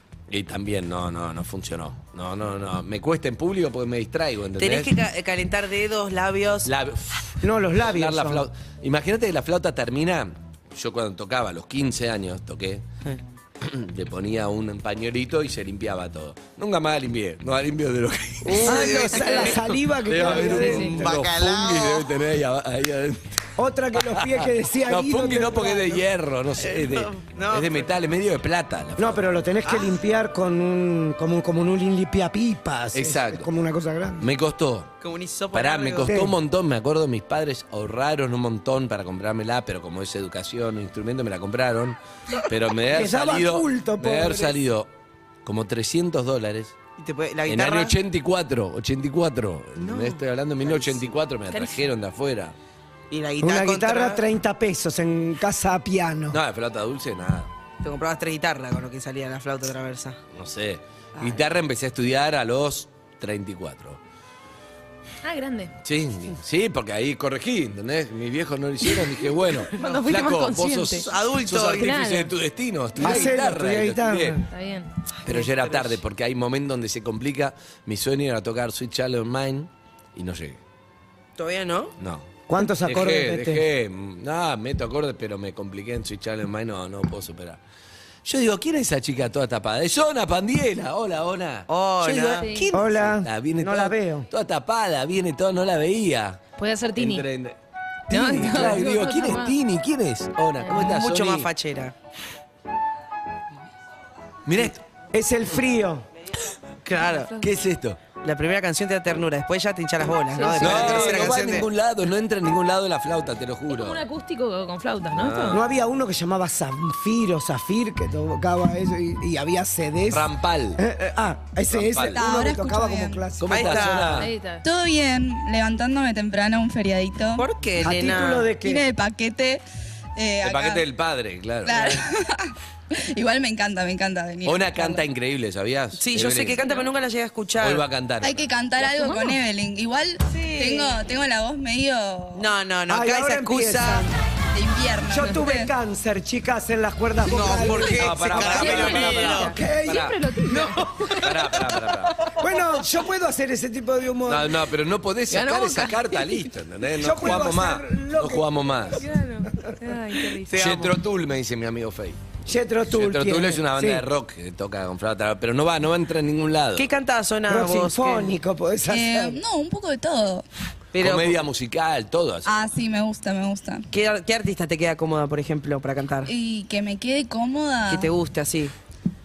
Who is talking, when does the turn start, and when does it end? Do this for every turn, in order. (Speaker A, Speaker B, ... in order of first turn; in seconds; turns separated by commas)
Speaker A: 0.3-4.9, Speaker B: 4.6-6.7, Speaker A: 6.7-12.8, Speaker C: 7.4-8.5, Speaker A: 13.6-19.4, Speaker B: 18.5-19.7, Speaker C: 18.6-21.2, Speaker A: 20.1-23.4, Speaker B: 20.5-22.1, Speaker D: 20.6-21.0, Speaker C: 23.6-26.0, Speaker A: 24.0-29.3, Speaker B: 26.6-27.9, Speaker C: 29.0-34.3, Speaker B: 29.7-29.9, Speaker A: 32.9-33.5, Speaker A: 34.2-34.9, Speaker B: 35.0-36.1, Speaker A: 35.5-44.9, Speaker C: 36.1-36.4, Speaker C: 42.9-44.6, Speaker A: 45.5-46.8, Speaker B: 47.0-48.0, Speaker A: 47.5-52.5, Speaker B: 49.8-51.1, Speaker D: 51.5-51.8, Speaker B: 53.1-54.2, Speaker C: 53.4-56.4, Speaker A: 56.3-57.5, Speaker B: 57.8-60.2, Speaker A: 60.3-64.0, Speaker B: 61.2-61.4, Speaker D: 65.2-65.7, Speaker A: 65.8-74.4, Speaker D: 69.7-71.1, Speaker B: 71.0-72.0, Speaker D: 71.8-72.3, Speaker C: 73.0-74.4, Speaker D: 74.5-74.9, Speaker B: 75.2-76.0, Speaker A: 75.3-80.6, Speaker B: 81.4-81.9, Speaker A: 82.0-87.6, Speaker C: 82.5-83.6, Speaker A: 88.2-96.4, Speaker B: 91.7-92.6, Speaker C: 92.7-94.3, Speaker D: 96.6-97.2, Speaker A: 97.0-97.6, Speaker A: 98.1-101.5, Speaker D: 98.1-99.6, Speaker B: 100.7-101.9, Speaker A: 104.5-104.8, Speaker C: 105.1-106.1, Speaker B: 106.8-107.3, Speaker A: 107.4-108.0, Speaker B: 108.2-111.7, Speaker D: 110.3-111.2, Speaker A: 110.6-114.0, Speaker D: 113.7-115.6, Speaker A: 115.1-115.7, Speaker C: 115.5-123.7, Speaker A: 120.1-120.8, Speaker A: 121.7-122.2, Speaker E: 122.1-123.3, Speaker A: 123.4-124.3, Speaker B: 123.5-124.3, Speaker D: 124.2-124.7, Speaker E: 124.6-127.5, Speaker B: 127.4-128.5, Speaker C: 127.8-128.8, Speaker E: 128.6-129.6, Speaker E: 130.2-130.8, Speaker A: 130.4-132.1, Speaker E: 131.7-135.0, Speaker A: 134.4-136.7, Speaker B: 136.0-137.8, Speaker A: 137.6-138.5, Speaker E: 138.2-142.5, Speaker D: 138.9-139.4, Speaker B: 140.3-141.0, Speaker B: 142.3-144.1, Speaker C: 142.9-144.2, Speaker E: 144.5-145.7, Speaker C: 145.1-150.1, Speaker B: 147.2-149.5, Speaker A: 147.8-150.2, Speaker D: 148.3-151.3, Speaker B: 150.5-151.3, Speaker A: 151.1-152.3, Speaker C: 152.3-154.6, Speaker A: 154.3-159.1, Speaker D: 155.3-156.5, Speaker C: 157.0-158.7, Speaker D: 159.0-160.7, Speaker B: 160.5-160.9, Speaker A: 160.5-162.3, Speaker C: 162.5-164.1, Speaker A: 162.9-166.9, Speaker B: 166.8-168.4, Speaker C: 167.5-169.4, Speaker E: 168.9-170.4, Speaker B: 170.9-171.4, Speaker A: 171.0-172.6, Speaker E: 172.5-173.9, Speaker B: 173.9-176.3, Speaker E: 176.3-178.1, Speaker B: 177.9-178.7